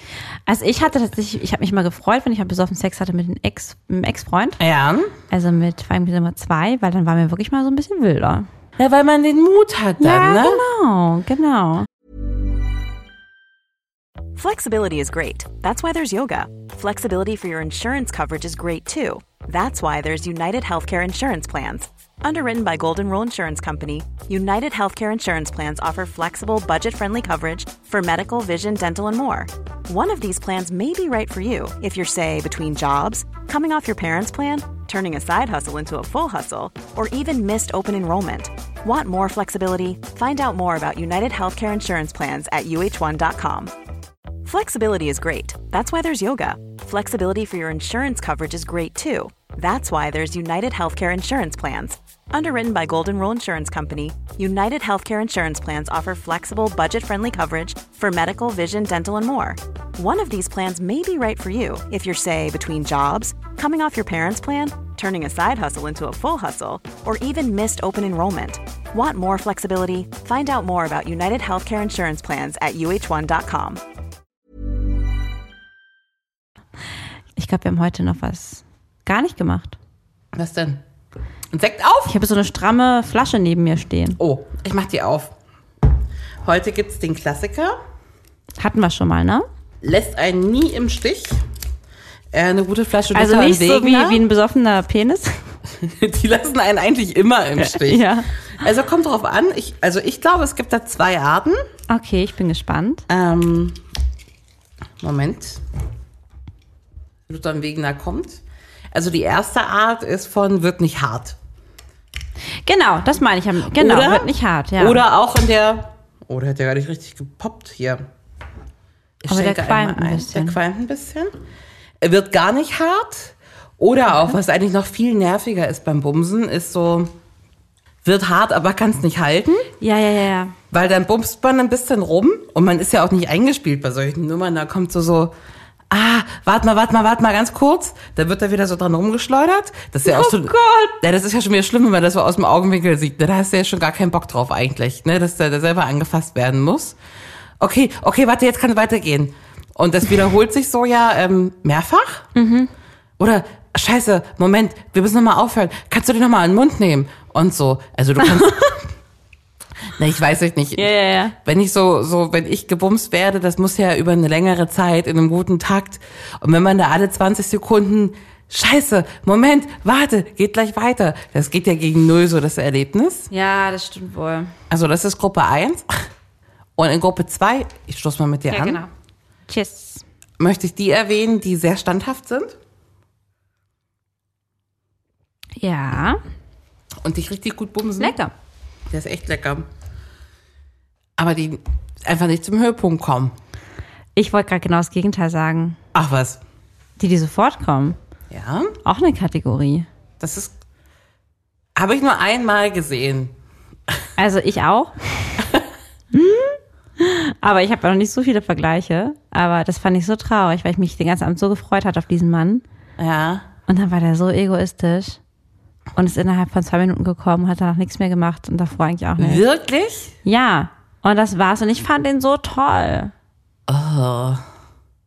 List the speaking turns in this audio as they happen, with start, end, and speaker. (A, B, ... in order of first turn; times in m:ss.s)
0:00.5-0:04.6 A
0:04.6-0:05.1 B
0:05.3-0:08.5 A
0:08.8-0:10.6 B
0:10.0-0:11.9 A
0:14.4-0:43.7 C
0:44.4-1:13.8 C
1:17.4-1:19.8 A
1:20.3-1:20.8 B
1:21.5-1:22.2 B
1:22.1-1:24.2 A
1:24.2-1:25.3 B
1:26.4-1:27.8 B
1:28.6-1:29.4 A
1:29.8-1:31.4 B
1:32.3-1:34.2 B
1:33.1-1:35.4 A
1:35.7-1:41.6 B
1:37.6-1:38.3 A
1:41.9-1:43.0 A
1:43.1-1:43.8 B
1:45.0-1:45.6 B
1:47.3-1:51.4 B
1:52.7-1:55.0 A
1:53.7-1:58.0 B
1:59.2-2:01.3 B
1:59.3-2:00.6 A
2:02.0-2:07.1 B
2:08.0-2:09.7 B
2:09.8-2:10.6 A
2:10.7-2:15.3 B
2:15.9-2:27.0 B
2:20.1-2:21.0 A
2:27.6-2:32.3 B
2:32.4-2:32.7 A
2:33.2-2:38.9 B
2:40.0-2:53.3 B
2:40.8-2:41.4 A
2:53.3-2:54.5 A
2:54.7-2:55.9 B
2:56.8-2:58.8 B
2:58.5-2:58.9 A
2:59.5-3:00.0 A
3:00.4-3:02.6 B
3:05.6-3:06.2 A
3:07.0-3:08.2 B
3:08.0-3:08.3 A
3:08.9-3:09.7 B
3:11.2-3:13.4 B
3:14.2-3:15.8 A
3:15.9-3:16.4 B
3:17.0-3:18.0 A
3:18.3-3:18.8 B
3:18.8-3:19.9 A
3:20.2-3:20.5 B
3:21.8-3:23.3 B
3:24.2-3:25.4 A
3:26.1-3:32.6 A
3:33.0-3:33.5 B
3:33.7-3:35.2 A
3:36.0-3:39.4 A
3:39.2-3:40.2 B
3:40.2-3:43.1 A
3:43.7-3:44.4 B